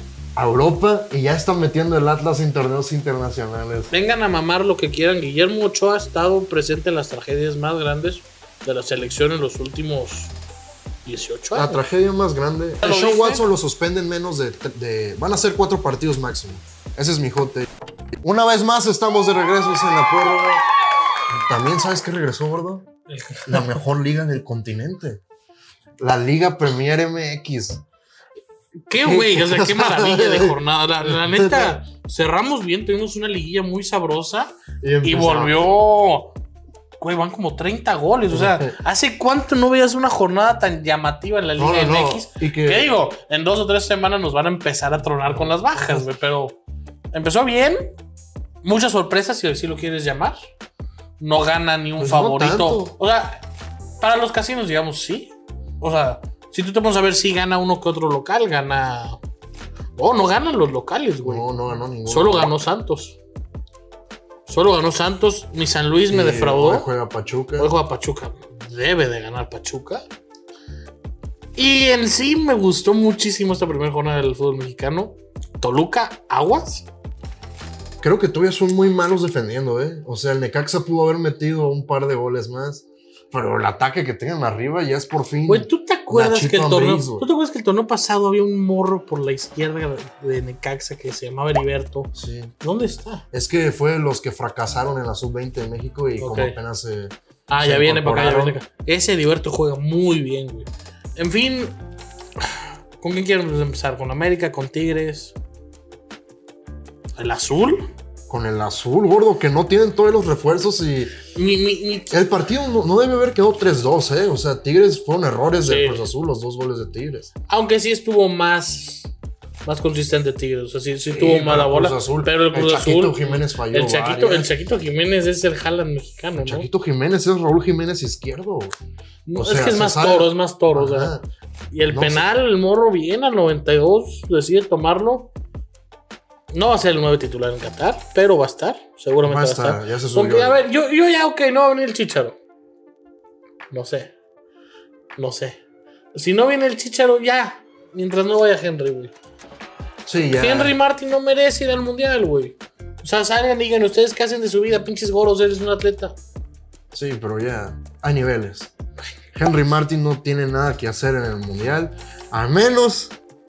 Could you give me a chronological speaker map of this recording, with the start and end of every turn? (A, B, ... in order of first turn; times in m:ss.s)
0:00.4-0:03.9 A
0:03.9-0:10.3 B
0:11.0-0:11.8 B
0:11.5-0:17.7 A
0:12.8-0:13.4 B
0:18.2-0:20.6 A
0:21.3-0:22.9 A
0:23.1-0:23.8 B
0:23.4-0:25.2 A
0:26.0-0:27.8 A
0:28.9-0:36.3 B
0:29.0-0:31.8 A
0:34.8-0:35.6 A
0:37.0-0:46.6 B
0:38.3-0:38.7 A
0:41.6-0:42.9 A
0:45.3-0:46.0 A
0:47.1-0:47.9 B
0:48.6-0:50.5 B
0:51.2-0:53.4 B
0:52.0-0:52.9 A
0:54.0-0:59.2 B
1:00.0-1:01.5 B
1:01.2-1:02.5 A
1:02.0-1:03.2 B
1:04.5-1:06.9 B
1:06.1-1:07.7 A
1:07.6-1:10.0 B
1:11.6-1:16.9 B
1:18.0-1:27.3 A
1:25.5-1:33.2 B
1:32.1-1:32.5 A
1:33.3-1:38.6 A
1:36.2-1:36.6 B
1:37.5-1:41.8 B
1:42.4-1:45.4 B
1:47.2-1:47.9 B
1:48.3-1:51.1 A
1:51.3-1:52.2 B
1:52.1-1:57.3 A
1:55.6-1:56.1 B
1:57.5-1:59.1 B
1:59.6-2:06.7 B
2:01.1-2:04.5 A
2:06.4-2:08.7 A
2:09.2-2:11.1 B
2:09.3-2:11.2 A
2:11.7-2:15.3 B
2:11.9-2:12.2 A
2:16.5-2:22.4 B
2:19.2-2:20.6 A
2:23.7-2:24.1 B
2:25.2-2:25.6 B
2:26.1-2:29.1 B
2:30.0-2:30.8 A
2:30.3-2:36.2 B
2:36.9-2:38.7 A
2:39.3-2:43.2 A